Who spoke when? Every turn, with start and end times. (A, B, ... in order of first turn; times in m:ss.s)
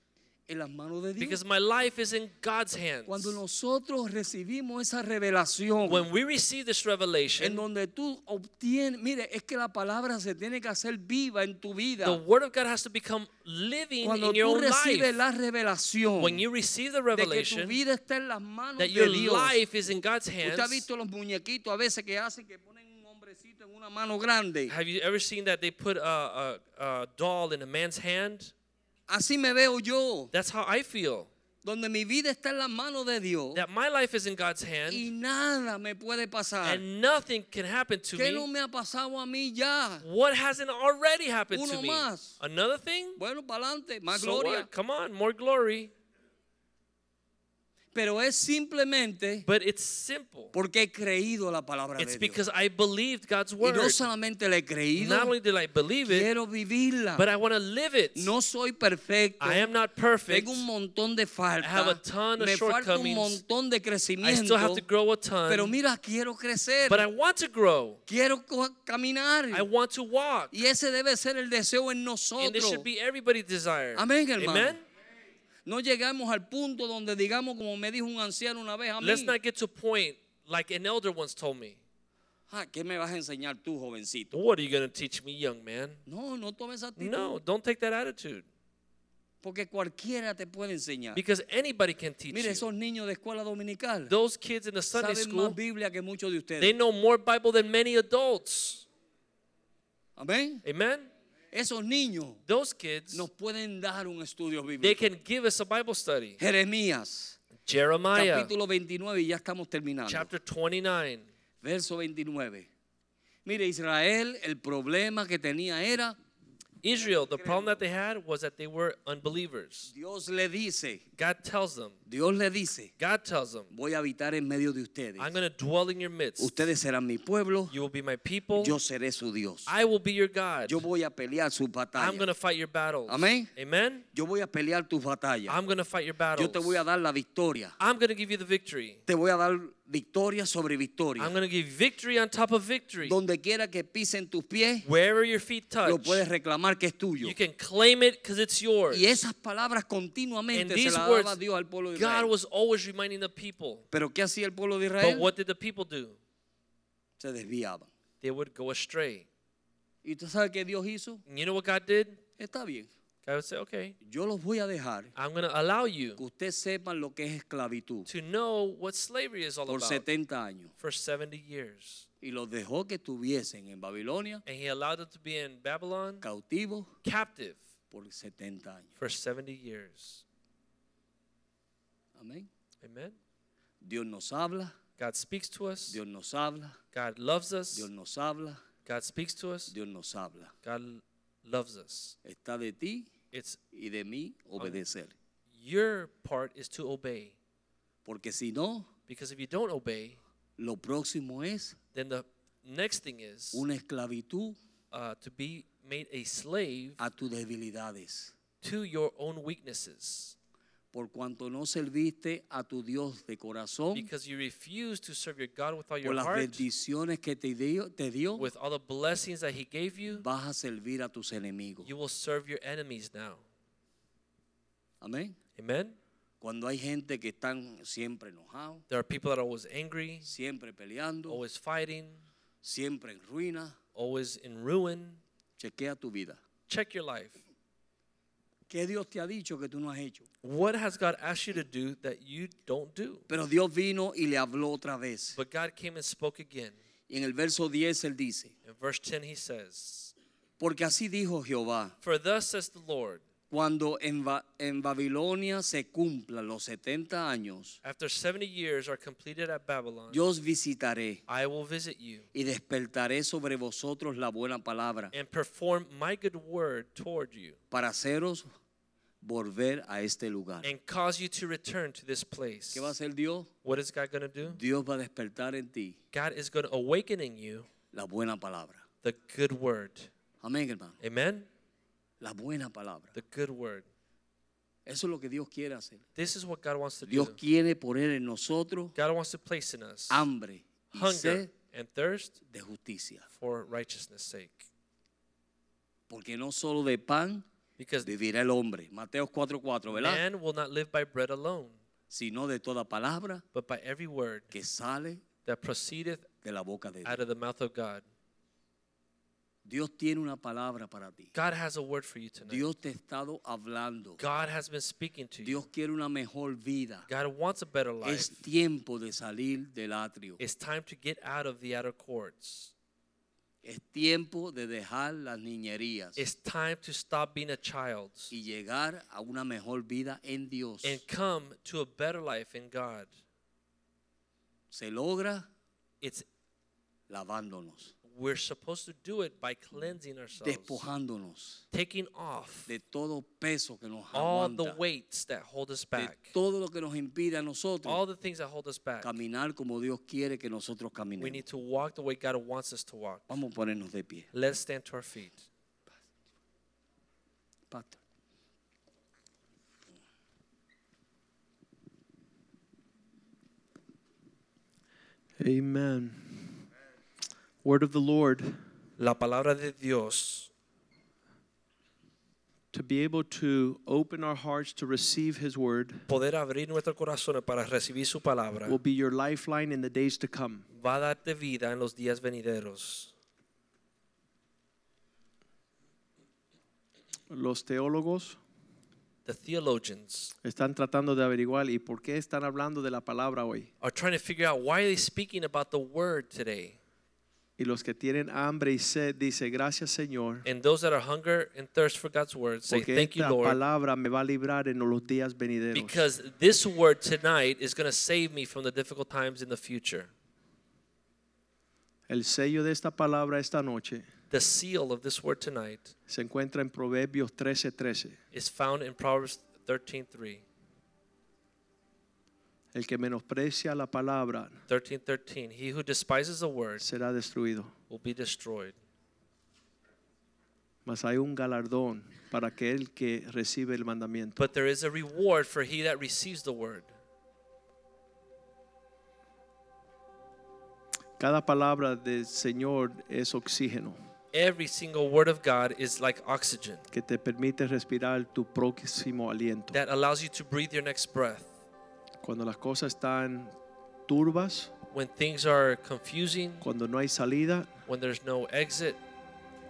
0:00.5-0:01.4 A
0:01.2-0:03.4 B
0:03.1-0:06.1 A
0:05.8-0:07.6 B
0:07.4-0:12.2 A
0:12.0-0:15.2 B
0:14.0-0:16.4 A
0:16.2-0:17.8 B
0:17.1-0:19.6 A
0:18.8-0:20.8 B
0:20.4-0:24.7 A
0:24.7-0:28.5 B
0:29.1-0:30.3 A
0:30.3-0:31.3 B
0:31.6-0:33.6 A
0:33.5-0:35.1 B
0:34.9-0:36.8 A
0:36.6-0:38.5 B
0:38.1-0:40.0 A
0:40.0-0:43.2 B
0:41.5-0:42.4 A
0:43.2-0:44.7 A
0:44.1-0:45.9 B
0:47.9-0:49.4 A
0:49.4-0:50.5 B
0:50.5-0:52.4 A
0:52.0-0:54.0 B
0:53.6-0:55.3 A
0:55.0-0:56.3 B
0:56.0-0:57.2 A
0:57.2-0:58.3 B
0:58.1-0:59.7 A
0:59.4-1:00.6 B
1:00.3-1:04.8 A
1:01.6-1:03.4 B
1:04.2-1:05.8 B
1:05.5-1:07.0 A
1:06.8-1:08.0 B
1:08.1-1:09.7 A
1:09.5-1:10.6 B
1:10.5-1:12.8 A
1:12.4-1:14.8 B
1:13.9-1:14.8 A
1:15.6-1:19.3 A
1:19.0-1:21.8 B
1:22.5-1:24.4 A
1:24.3-1:26.0 B
1:26.0-1:27.4 A
1:27.0-1:28.4 B
1:29.4-1:31.2 A
1:31.1-1:32.7 B
1:32.3-1:34.1 A
1:34.1-1:35.6 B
1:34.9-1:36.7 A
1:36.6-1:38.9 B
1:40.2-1:40.6 A
1:40.6-1:41.1 B
1:41.5-1:42.4 A
1:42.5-1:43.2 B
1:43.1-1:45.0 A
1:44.8-1:46.4 B
1:46.4-1:47.4 A
1:47.6-1:48.5 B
1:48.1-1:50.3 A
1:50.1-1:51.3 B
1:51.6-1:52.7 A
1:53.4-1:56.2 A
1:56.8-1:59.9 B
1:57.0-1:57.8 A
1:59.9-2:01.0 A
2:01.2-2:02.0 B
2:02.0-2:02.9 A
2:03.0-2:03.7 B
2:03.7-2:05.3 A
2:05.2-2:06.6 B
2:06.4-2:07.7 A
2:07.7-2:08.8 B
2:08.5-2:09.7 A
2:09.7-2:10.8 B
2:10.7-2:12.3 A
2:12.0-2:14.0 B
2:13.1-2:13.5 A
2:14.1-2:15.6 A
2:15.5-2:16.8 B
2:16.4-2:17.7 A
2:17.8-2:19.0 B
2:19.1-2:21.3 A
2:21.2-2:23.2 B
2:23.0-2:24.8 A
2:24.8-2:26.2 B
2:25.8-2:27.4 A
2:27.2-2:29.2 B
2:28.9-2:32.3 A
2:30.5-2:31.4 B
2:31.9-2:33.8 B
2:33.9-2:35.3 A
2:35.0-2:36.2 B
2:37.2-2:37.9 A
2:38.2-2:39.3 B
2:40.0-2:41.2 A
2:41.3-2:42.2 B
2:42.4-2:42.9 A
2:43.2-2:44.0 B
2:44.0-2:45.1 A
2:45.2-2:46.2 B
2:46.2-2:48.1 A
2:48.1-2:50.0 B
2:49.7-2:50.7 A
2:50.8-2:52.1 B
2:52.2-2:54.4 A
2:54.4-2:56.2 B
2:56.2-2:56.9 A
2:57.0-2:57.6 B
2:57.9-2:58.9 A
2:59.0-3:00.2 B
3:02.2-3:02.5 A
3:02.8-3:03.2 B
3:03.8-3:04.7 A
3:05.0-3:06.0 B
3:05.9-3:06.8 A
3:06.9-3:07.9 B
3:07.7-3:08.6 A
3:08.8-3:09.7 B
3:09.7-3:10.5 A
3:10.6-3:12.2 B
3:12.2-3:13.1 A
3:13.3-3:13.6 B
3:13.7-3:15.1 A
3:15.5-3:17.4 B
3:18.0-3:18.9 A
3:19.1-3:20.2 B
3:20.6-3:21.8 A
3:21.9-3:23.6 B
3:23.5-3:24.6 A
3:24.9-3:27.0 B
3:27.0-3:28.3 A
3:28.6-3:30.4 B
3:30.9-3:34.1 A
3:33.9-3:36.6 B
3:36.0-3:38.5 A
3:38.4-3:40.2 B
3:40.2-3:41.9 A
3:41.8-3:43.4 B
3:45.0-3:45.4 A
3:45.6-3:46.0 B
3:46.4-3:48.8 A
3:48.9-3:50.3 B
3:50.2-3:51.4 A
3:51.3-3:52.2 B
3:52.6-3:53.8 A
3:53.9-3:55.2 B
3:55.6-3:56.4 A
3:56.7-3:57.4 B
3:58.7-4:00.3 A
4:00.4-4:03.2 B
4:03.3-4:05.4 A
4:05.3-4:06.8 B
4:07.1-4:08.5 A
4:08.6-4:10.1 B
4:10.6-4:11.9 A
4:12.0-4:13.2 B
4:13.5-4:17.8 A
4:17.8-4:20.2 B
4:20.1-4:21.2 A
4:21.3-4:22.3 B
4:22.3-4:25.1 A
4:25.1-4:27.6 B
4:27.7-4:28.5 A
4:29.2-4:30.7 A
4:30.6-4:32.9 B
4:32.7-4:33.5 A
4:33.6-4:34.6 B
4:34.4-4:36.0 A
4:36.1-4:37.7 B
4:37.9-4:38.8 A
4:39.0-4:40.1 B
4:40.4-4:41.0 A
4:41.0-4:41.5 B
4:42.2-4:43.2 A
4:43.1-4:43.8 B
4:44.8-4:46.0 A
4:46.2-4:47.4 B
4:47.0-4:49.0 A
4:49.0-4:50.2 B
4:50.1-4:51.5 A
4:50.9-4:52.4 B
4:52.5-4:53.2 A
4:53.3-4:54.7 B
4:56.1-4:57.4 A
4:57.8-4:58.1 B
4:58.0-5:00.2 A
4:59.9-5:01.8 B
5:02.1-5:03.4 A
5:03.5-5:04.5 B
5:04.5-5:05.2 A
5:05.4-5:06.3 B
5:06.4-5:07.2 A
5:07.0-5:08.0 B
5:09.6-5:11.3 A
5:11.3-5:12.7 B
5:12.4-5:14.2 A
5:14.2-5:15.6 B
5:15.4-5:17.0 A
5:17.1-5:18.4 B
5:18.0-5:20.4 A
5:20.4-5:22.7 B
5:23.6-5:26.2 A
5:26.2-5:28.3 B
5:28.3-5:31.0 A
5:30.8-5:33.1 B
5:34.7-5:35.5 A
5:36.0-5:36.2 B
5:37.1-5:37.9 A
5:38.1-5:40.8 B
5:40.4-5:41.6 A
5:41.7-5:42.7 B
5:42.7-5:44.8 A
5:44.1-5:46.3 B
5:46.0-5:48.0 A
5:47.8-5:49.1 B
5:49.0-5:51.4 A
5:51.2-5:53.4 B
5:53.3-5:54.3 A
5:54.3-5:55.5 B
5:57.7-5:58.0 A
6:05.4-6:06.5 C
6:07.6-6:08.6 C
6:09.0-6:10.5 B
6:12.7-6:16.1 C
6:16.1-6:18.8 B
6:18.6-6:20.7 C
6:20.7-6:23.1 B
6:27.3-6:28.4 C
6:29.2-6:30.3 B
6:30.4-6:33.7 C
6:33.8-6:36.8 B
6:37.6-6:40.4 C
6:40.4-6:43.6 B
6:42.7-6:46.0 C
6:45.7-6:50.1 B
6:52.1-6:54.0 C
6:54.3-6:55.9 B
6:56.1-6:58.2 C
6:58.3-7:00.4 B
7:02.7-7:04.6 C
7:04.7-7:06.8 B
7:06.8-7:07.7 C
7:07.9-7:08.8 B
7:10.8-7:14.4 C
7:14.4-7:16.9 B
7:21.2-7:24.0 C
7:24.3-7:26.8 B
7:26.9-7:29.8 C
7:29.7-7:31.5 B
7:32.2-7:33.5 C
7:34.1-7:34.7 C
7:34.9-7:36.6 B
7:36.6-7:37.7 C
7:37.9-7:39.0 B